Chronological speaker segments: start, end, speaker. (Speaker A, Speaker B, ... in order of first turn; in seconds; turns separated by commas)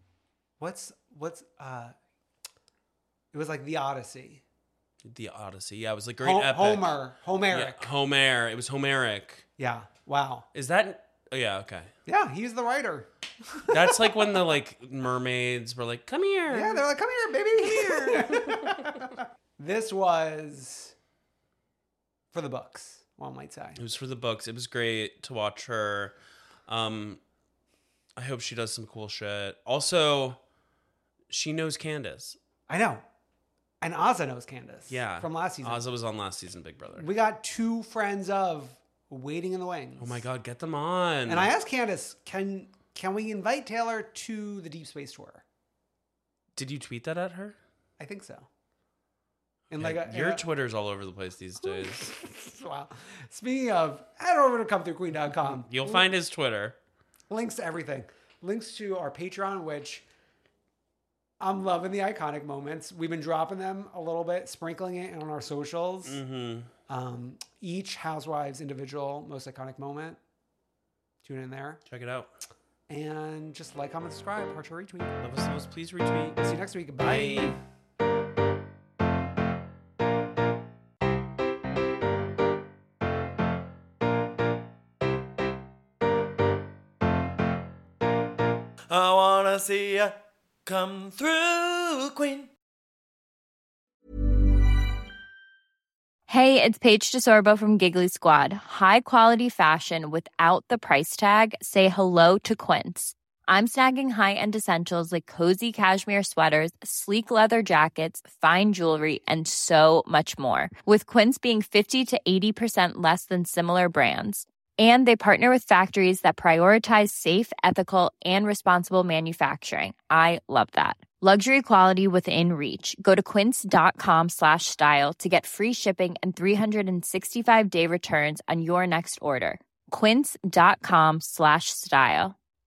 Speaker A: 0.6-1.9, Speaker A: 3.3-4.4, Speaker B: 5.1-9.5, Speaker A: 6.2-7.9, Speaker A: 9.6-10.5, Speaker B: 10.5-11.9, Speaker A: 12.1-14.4, Speaker B: 13.7-16.9, Speaker A: 16.5-20.9, Speaker B: 17.6-18.6, Speaker A: 22.3-23.8, Speaker B: 23.8-26.1, Speaker B: 26.7-27.2, Speaker B: 28.2-30.4, Speaker B: 31.3-32.4, Speaker A: 32.7-33.0, Speaker A: 33.8-35.8, Speaker B: 34.9-37.1, Speaker A: 37.0-40.2, Speaker B: 40.0-41.5, Speaker A: 41.3-45.4, Speaker B: 46.6-47.6, Speaker A: 48.0-48.5, Speaker A: 49.7-50.4, Speaker B: 49.8-52.1, Speaker A: 51.7-56.1, Speaker B: 55.7-56.8, Speaker A: 57.3-60.0, Speaker A: 61.4-66.2, Speaker B: 66.0-66.7, Speaker A: 66.9-70.2, Speaker A: 71.2-71.8, Speaker B: 71.9-72.3, Speaker A: 72.9-75.1, Speaker B: 75.2-76.4, Speaker A: 76.4-77.6, Speaker B: 77.0-77.6, Speaker C: 88.9-92.5, Speaker D: 96.3-132.4